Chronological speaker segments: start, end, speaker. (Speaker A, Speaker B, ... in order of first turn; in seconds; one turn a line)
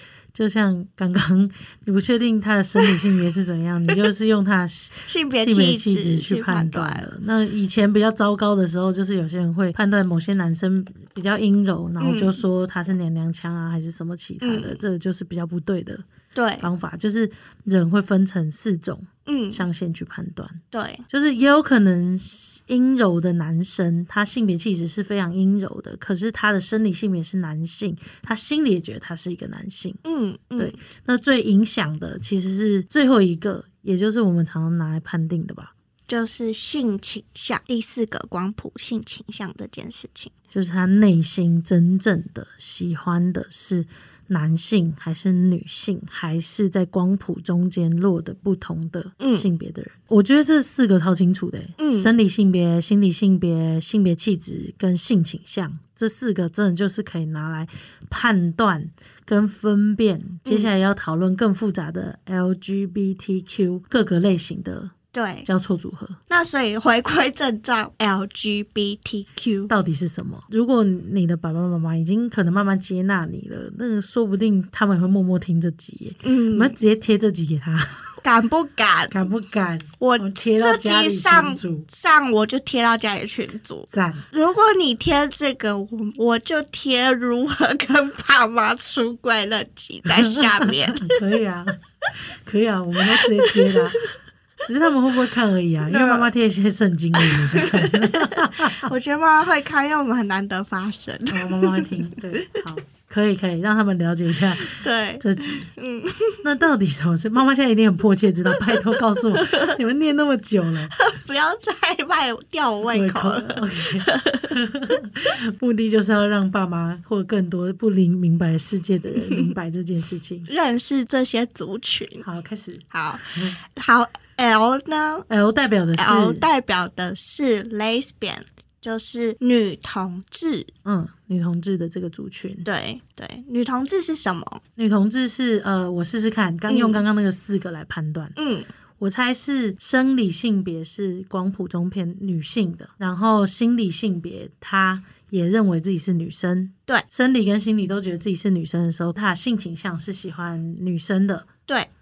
Speaker A: 0.3-16.0
Speaker B: 5.0-7.1
Speaker B: 12.0-12.3
Speaker B: 14.4-14.8
Speaker B: 16.3-16.7
Speaker A: 16.6-30.0
Speaker B: 19.2-19.6
Speaker B: 20.7-21.0
Speaker B: 30.0-30.8
Speaker A: 30.6-35.7
Speaker B: 36.1-40.3
Speaker A: 40.5-64.9
Speaker B: 49.2-49.5
Speaker B: 51.8-52.1
Speaker B: 60.4-60.7
Speaker B: 65.1-65.5
Speaker A: 65.5-66.2
Speaker B: 66.3-69.7
Speaker A: 69.7-78.1
Speaker B: 76.2-76.8
Speaker B: 78.2-79.2
Speaker A: 79.1-81.8
Speaker B: 80.0-91.2
Speaker A: 83.9-84.2
Speaker A: 90.1-91.8
Speaker A: 92.4-94.0
Speaker B: 93.0-94.1
Speaker A: 94.6-98.9
Speaker B: 95.8-96.3
Speaker B: 97.2-102.6
Speaker A: 101.3-105.7
Speaker B: 104.7-106.4
Speaker A: 106.4-110.9
Speaker B: 108.7-109.8
Speaker B: 110.9-114.5
Speaker A: 112.9-120.5
Speaker B: 119.2-119.5
Speaker B: 120.5-122.2
Speaker A: 122.2-123.6
Speaker B: 122.9-125.3
Speaker A: 125.3-126.4
Speaker B: 126.0-130.7
Speaker A: 130.8-132.7
Speaker B: 132.6-134.6
Speaker A: 134.8-138.3
Speaker B: 136.7-137.0
Speaker B: 138.3-138.7
Speaker A: 139.0-151.5